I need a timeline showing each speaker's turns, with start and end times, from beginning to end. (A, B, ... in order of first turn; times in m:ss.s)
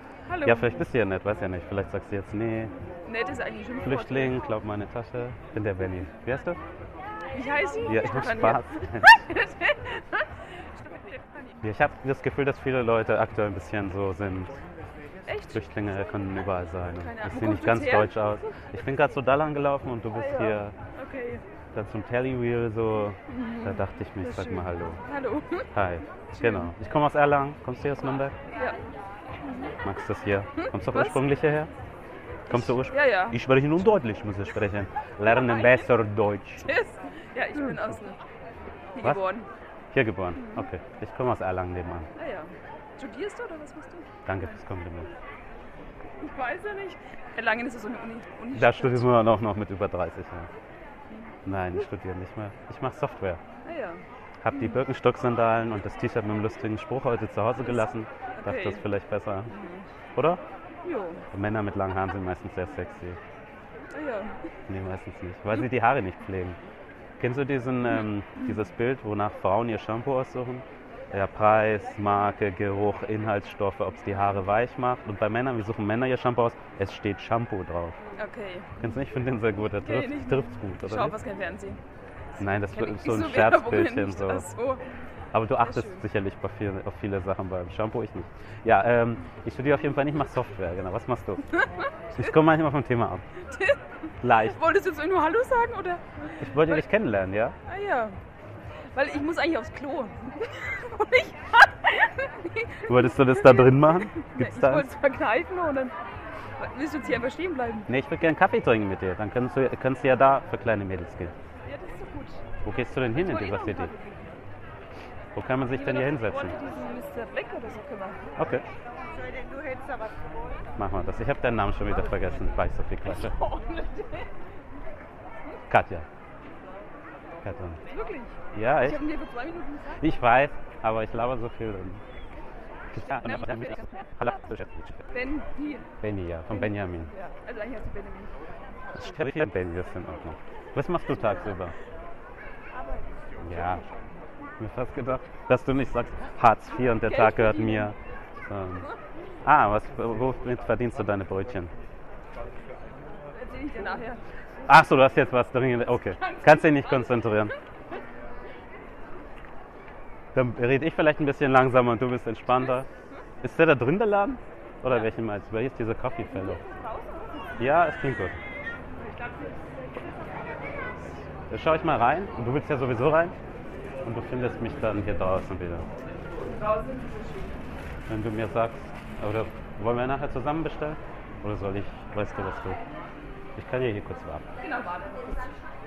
0:00.3-0:00.8 A
0:00.4-0:02.7 B
0:03.0-0:04.4 A
0:03.8-0:06.6 B
0:07.3-0:11.6 A
0:07.8-0:09.2 B
0:11.6-0:14.6 B
0:15.2-0:15.7 A
0:15.5-0:20.7 B
0:16.9-0:18.5 A
0:20.2-0:21.4 A
0:21.7-0:25.0 B
0:23.3-0:25.7 A
0:25.7-0:28.3 B
0:26.3-0:26.7 A
0:28.5-0:28.8 A
0:29.4-0:29.8 A
0:29.8-0:31.7 B
0:30.6-0:31.3 A
0:32.5-0:36.7 B
0:32.5-0:33.4 A
0:35.4-0:35.7 A
0:36.6-0:38.2 A
0:38.9-0:39.5 A
0:39.9-0:42.1 B
0:40.4-0:40.7 A
0:42.2-0:44.5 A
0:44.2-0:45.1 B
0:46.2-0:49.1 A
0:48.5-0:50.5 B
0:51.4-0:53.4 B
0:53.6-0:54.8 A
0:54.4-0:59.5 B
0:58.4-0:58.8 A
0:59.5-0:59.9 A
1:00.1-1:00.4 B
1:00.8-1:01.2 A
1:01.3-1:03.2 B
1:03.9-1:04.4 A
1:04.7-1:06.6 B
1:07.2-1:18.0 B
1:18.2-1:18.8 A
1:18.8-1:21.2 B
1:19.8-1:21.8 A
1:22.4-1:24.4 B
1:22.7-1:24.8 A
1:25.3-1:31.6 B
1:25.6-1:26.0 A
1:31.6-1:32.3 A
1:32.1-1:33.2 B
1:33.5-1:33.8 A
1:34.2-1:34.6 B
1:34.4-1:36.8 A
1:36.4-1:37.5 B
1:37.6-1:38.2 A
1:38.9-1:45.9 A
1:42.8-1:44.9 B
1:46.6-1:47.9 A
1:47.9-1:51.3 B
1:51.6-1:52.4 A
1:52.6-1:53.9 B
1:53.1-1:54.3 A
1:55.3-1:56.5 B
1:55.7-1:58.2 A
1:58.4-1:58.6 B
2:00.8-2:03.4 B
2:03.1-2:04.3 A
2:05.7-2:06.1 B
2:07.4-2:07.8 B
2:07.9-2:10.0 A
2:08.5-2:09.0 B
2:10.0-2:12.0 B
2:12.9-2:15.1 B
2:13.0-2:14.1 A
2:15.1-2:15.9 A
2:16.0-2:17.1 B
2:16.5-2:18.3 A
2:18.9-2:21.7 B
2:22.7-2:23.1 A
2:23.4-2:23.8 B
2:24.6-2:28.9 B
2:26.9-2:27.9 A
2:29.4-2:31.7 B
2:33.3-2:34.2 A
2:34.7-2:37.5 B
2:36.0-2:37.5 A
2:40.3-2:42.9 B
2:43.4-2:46.6 B
2:46.3-2:47.6 A
2:47.6-2:48.4 B
2:49.0-2:50.7 A
2:51.3-2:53.4 B
2:54.0-2:55.9 B
2:56.4-2:57.6 A
2:58.1-3:02.8 B
3:03.6-3:04.4 B
3:04.6-3:05.4 A